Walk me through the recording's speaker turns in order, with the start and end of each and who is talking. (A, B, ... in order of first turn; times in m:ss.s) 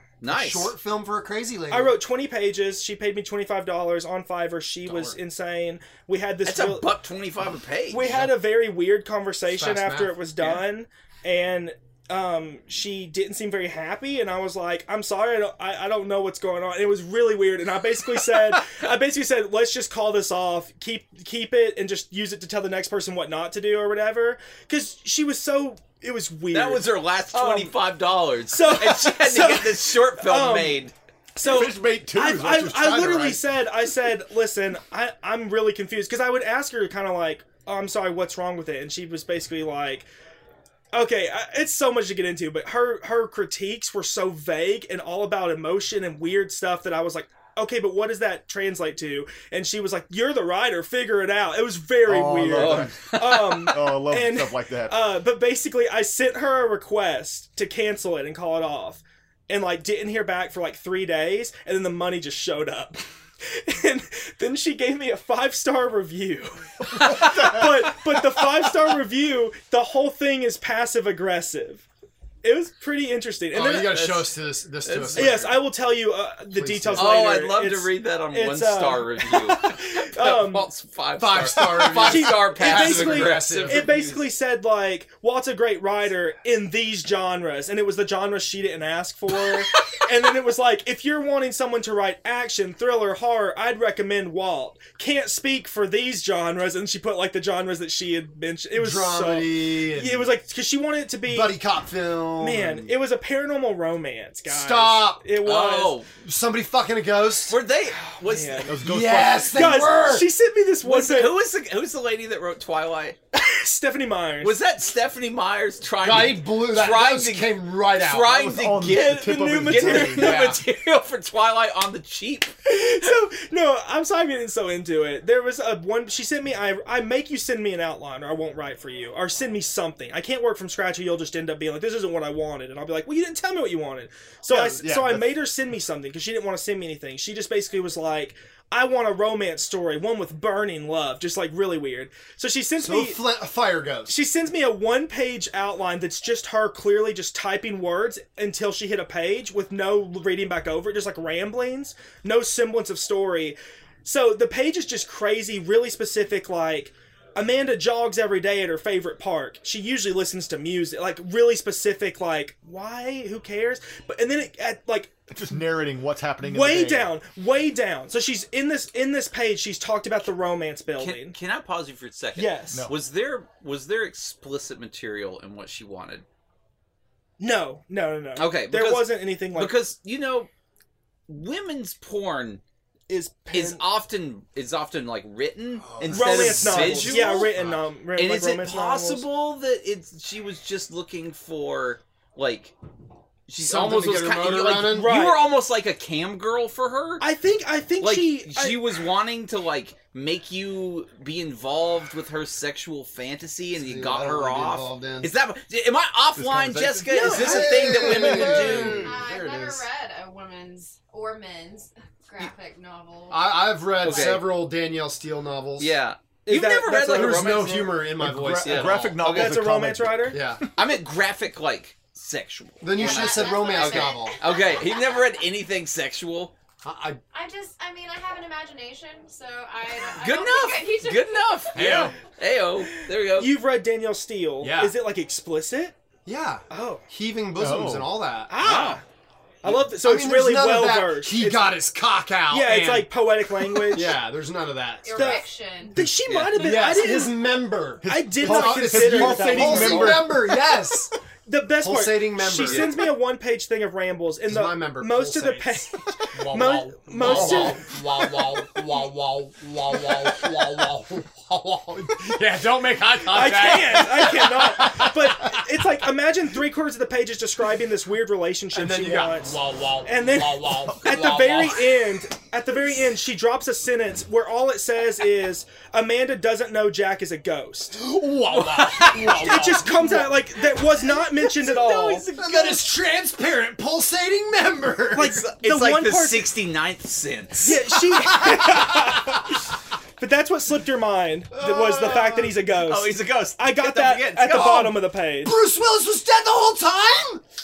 0:00.2-0:00.8 A
0:00.3-0:02.0 B
0:01.7-0:06.9 C
0:06.4-0:08.2 A
0:07.9-0:27.8 C
0:08.1-0:08.3 B
0:09.5-0:10.2 B
0:10.4-0:10.6 A
0:26.5-0:30.9 A
0:28.5-0:40.1 C
0:31.4-0:33.4 D
0:40.9-1:11.8 C
0:52.0-0:55.1 D
0:52.6-0:53.8 A
1:12.4-1:14.1 C
1:13.5-1:15.7 B
1:13.8-1:15.6 A
1:15.1-1:20.7 C
1:16.5-1:17.2 B
1:17.0-1:24.3 A
1:21.2-1:23.9 B
1:21.9-1:41.6 C
1:29.4-1:29.9 A
1:38.8-1:40.3 B
1:41.2-1:42.9 B
1:42.4-1:46.0 C
1:44.5-1:45.3 B
1:45.4-1:46.1 A
1:46.1-1:47.6 B
1:47.5-1:48.7 A
1:48.2-1:48.8 C
1:48.7-1:49.5 D
1:48.8-1:50.3 B
1:49.5-1:51.4 C
1:50.8-1:53.2 A
1:53.3-1:54.6 C
1:54.4-2:02.5 A
1:56.0-1:58.4 B
1:58.3-2:00.5 D
1:59.0-2:00.4 C
2:00.2-2:00.6 B
2:02.6-2:23.2 C
2:14.5-2:15.4 D
2:22.8-2:24.1 B
2:24.1-2:45.1 C
2:45.3-2:47.2 D
2:46.4-2:51.4 C
2:51.0-2:56.2 A
2:52.4-2:52.9 C
2:57.4-2:59.8 C
2:58.4-3:00.5 A
3:01.3-3:02.6 A
3:03.1-3:03.8 C
3:03.5-3:12.8 A
3:05.7-3:07.8 B
3:06.1-3:09.3 C
3:13.5-3:17.3 A
3:13.6-3:15.1 B
3:14.9-3:15.5 C
3:17.2-3:18.8 C
3:18.0-3:29.1 A
3:23.7-3:25.3 B
3:26.4-3:27.1 D
3:27.1-3:28.9 C
3:27.1-3:29.9 B
3:28.3-3:34.4 E
3:33.3-3:36.0 B
3:34.0-3:34.6 A
3:35.8-3:39.6 A
3:36.5-3:38.0 C
3:37.0-3:39.1 B
3:38.2-3:40.8 D
3:39.2-3:40.4 C
3:40.3-3:40.6 B
3:40.8-3:46.5 A
3:42.8-3:44.4 B
3:42.9-3:45.4 E
3:46.8-3:47.2 B
3:47.3-3:52.0 E
3:50.1-3:53.6 A
3:51.7-3:52.2 B
3:51.8-3:52.1 C
3:52.9-3:56.0 C
3:54.6-3:55.0 B
3:56.3-3:58.8 B
3:56.7-3:57.0 C
3:57.6-3:58.1 D
3:58.5-3:59.0 C
3:58.6-3:59.0 A
3:59.6-4:01.8 C
3:59.9-4:03.2 B
4:02.5-4:04.2 C
4:03.8-4:05.5 B
4:05.0-4:05.9 E
4:05.1-4:07.4 C
4:06.3-4:07.0 A
4:06.5-4:11.1 B
4:08.0-4:11.0 D
4:08.0-4:10.3 C
4:11.5-4:17.9 C
4:11.8-4:13.1 B
4:12.6-4:12.9 A
4:14.5-4:25.6 B
4:23.3-4:38.0 C
4:28.7-4:32.0 B
4:38.0-4:41.3 B
4:38.5-4:40.1 A
4:39.3-4:42.3 C
4:41.3-4:42.9 A
4:42.2-4:45.4 B
4:45.1-4:46.5 C
4:45.2-4:47.9 A
4:47.6-4:49.6 C
4:47.6-4:49.4 B
4:50.2-4:55.6 C
4:51.5-4:52.6 B
4:52.7-4:55.0 A
4:55.4-4:57.4 B